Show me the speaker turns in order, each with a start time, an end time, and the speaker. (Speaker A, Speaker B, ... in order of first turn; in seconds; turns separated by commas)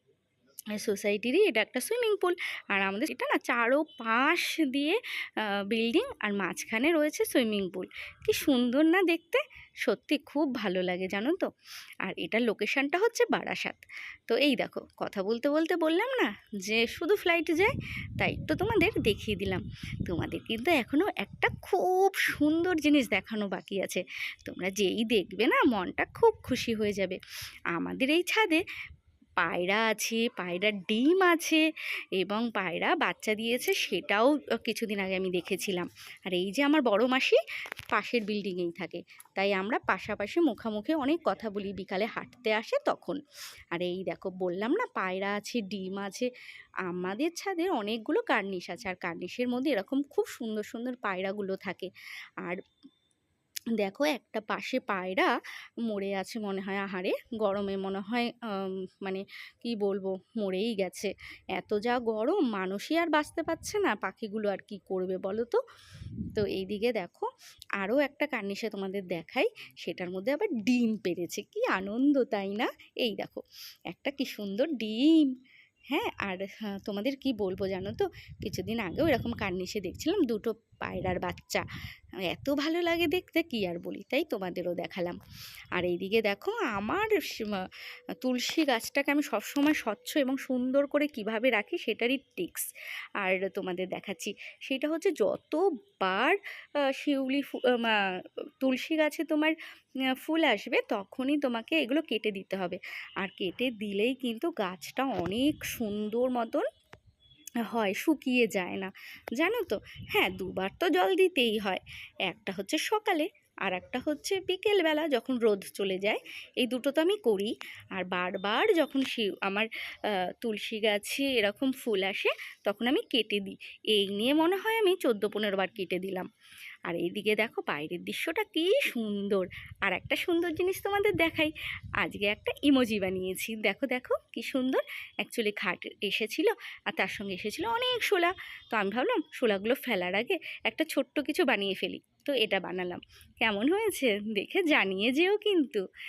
Speaker A: 0.8-11.5, Speaker A: 12.0-27.2, Speaker A: 27.7-28.6, Speaker A: 29.4-31.6, Speaker A: 32.2-37.4, Speaker A: 37.9-43.2, Speaker A: 43.7-46.3, Speaker A: 46.9-51.9, Speaker A: 53.8-55.3, Speaker A: 55.9-65.6, Speaker A: 66.3-75.3, Speaker A: 75.9-81.6, Speaker A: 82.3-85.2, Speaker A: 85.8-87.7, Speaker A: 88.2-92.7, Speaker A: 93.2-96.4, Speaker A: 97.0-98.0, Speaker A: 98.6-99.5, Speaker A: 100.2-106.7, Speaker A: 107.6-119.7, Speaker A: 120.4-126.3, Speaker A: 126.9-145.8